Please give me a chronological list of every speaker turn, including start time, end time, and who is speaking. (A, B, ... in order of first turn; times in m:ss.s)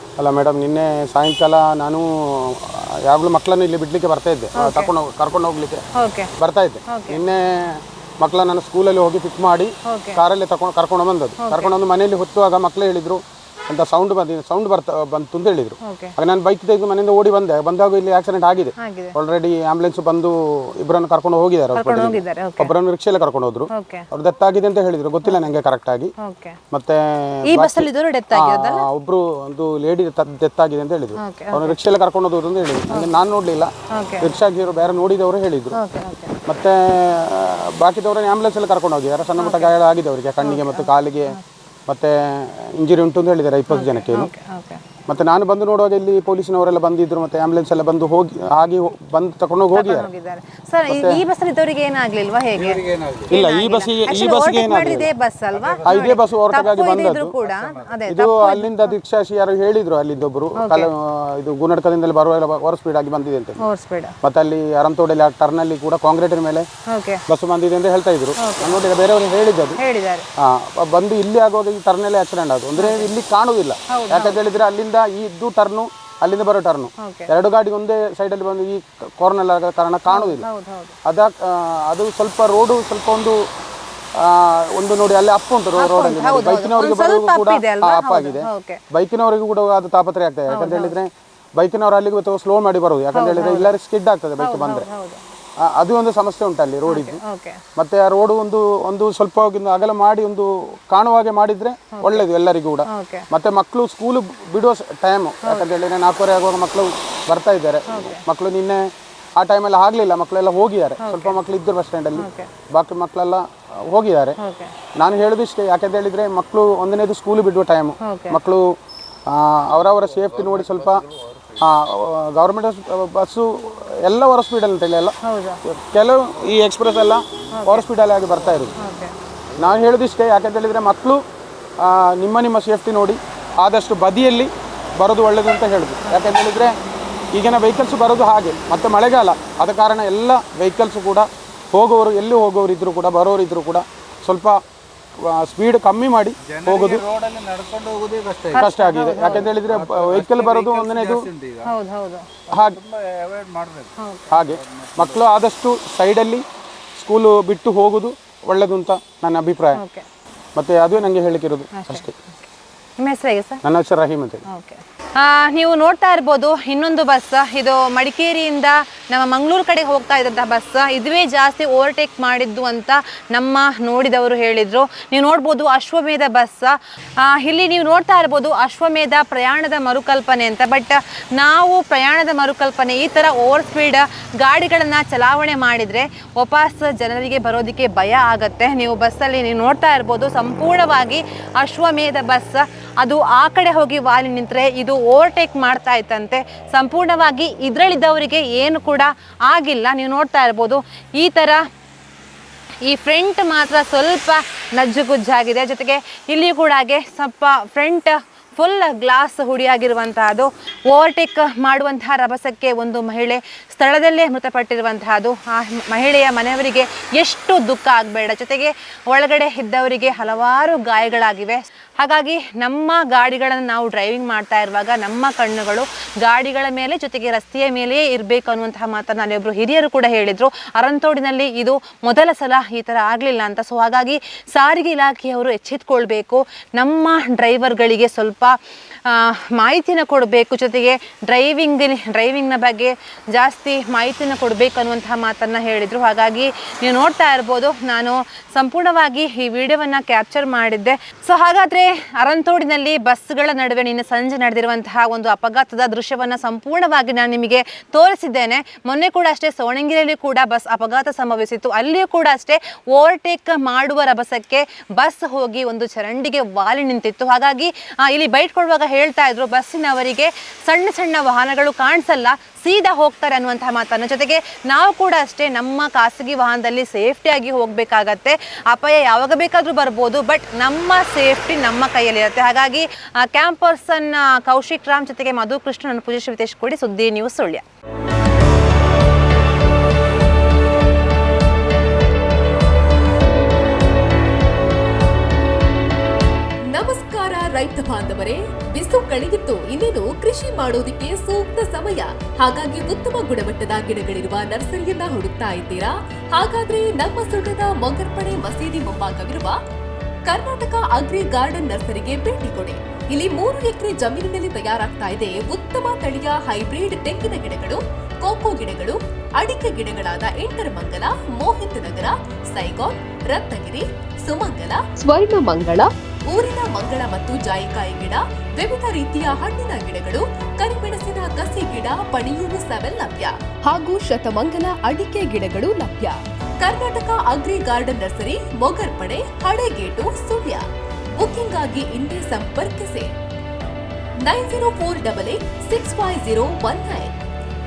0:00.2-0:05.8 A
0:04.6-0:04.9 B
0:06.0-0:06.3 B
0:06.4-0:26.1 A
0:06.9-0:07.2 B
0:09.9-0:10.2 B
0:11.4-0:11.7 B
0:15.8-0:16.1 B
0:18.8-0:19.2 B
0:21.8-0:22.7 B
0:23.7-0:24.1 B
0:25.2-0:25.5 B
0:26.2-0:26.6 B
0:26.7-0:35.8 A
0:27.5-0:28.9 B
0:31.2-0:31.8 B
0:33.9-0:34.3 B
0:35.7-0:36.3 B
0:36.5-0:41.4 A
0:39.4-0:39.7 B
0:40.4-0:41.4 B
0:41.9-0:44.3 A
0:43.7-0:44.8 B
0:45.1-0:50.1 A
0:49.8-0:58.9 B
0:50.9-0:51.2 A
0:52.6-0:53.3 C
0:53.3-0:55.1 A
0:55.5-0:56.8 C
0:55.8-0:57.3 A
0:57.4-0:58.0 C
0:58.1-1:03.6 A
1:00.6-1:00.9 B
1:03.6-1:04.2 B
1:04.2-1:06.7 A
1:06.9-1:07.2 B
1:07.3-1:09.8 A
1:08.4-1:08.8 B
1:09.8-1:10.2 B
1:10.4-1:20.5 A
1:12.8-1:13.1 B
1:13.9-1:14.4 B
1:17.0-1:17.3 B
1:20.1-1:20.9 B
1:21.0-1:23.4 A
1:24.2-1:34.9 A
1:25.8-1:28.8 B
1:30.5-1:30.9 B
1:33.1-1:33.7 B
1:34.4-1:35.2 B
1:35.6-1:37.2 A
1:36.9-1:37.6 B
1:37.8-1:54.4 A
1:41.9-1:42.3 B
1:42.9-1:43.3 B
1:47.9-1:48.2 B
1:51.0-1:51.4 B
1:52.2-1:52.5 B
1:54.4-1:54.7 B
1:55.0-1:58.8 A
1:58.0-1:58.4 B
1:59.3-2:01.0 A
2:00.1-2:01.4 C
2:01.6-2:08.7 A
2:05.2-2:05.6 B
2:07.5-2:07.8 B
2:08.8-2:09.1 B
2:09.6-2:11.2 A
2:11.8-2:16.8 A
2:17.3-2:24.6 A
2:25.2-2:27.0 A
2:26.4-2:31.7 C
2:28.5-2:29.5 B
2:28.6-2:31.3 A
2:31.6-2:32.3 B
2:32.5-2:35.3 C
2:34.0-2:34.3 B
2:34.3-2:36.4 A
2:37.0-2:39.8 A
2:39.7-2:40.0 B
2:40.6-2:42.1 A
2:41.7-2:42.5 B
2:43.0-2:43.6 B
2:43.6-2:44.4 A
2:44.5-3:21.6 B
3:22.8-4:47.6 B
4:56.7-5:09.5 D
5:10.3-5:40.6 D
5:41.2-5:43.1 D
5:44.3-5:47.1 D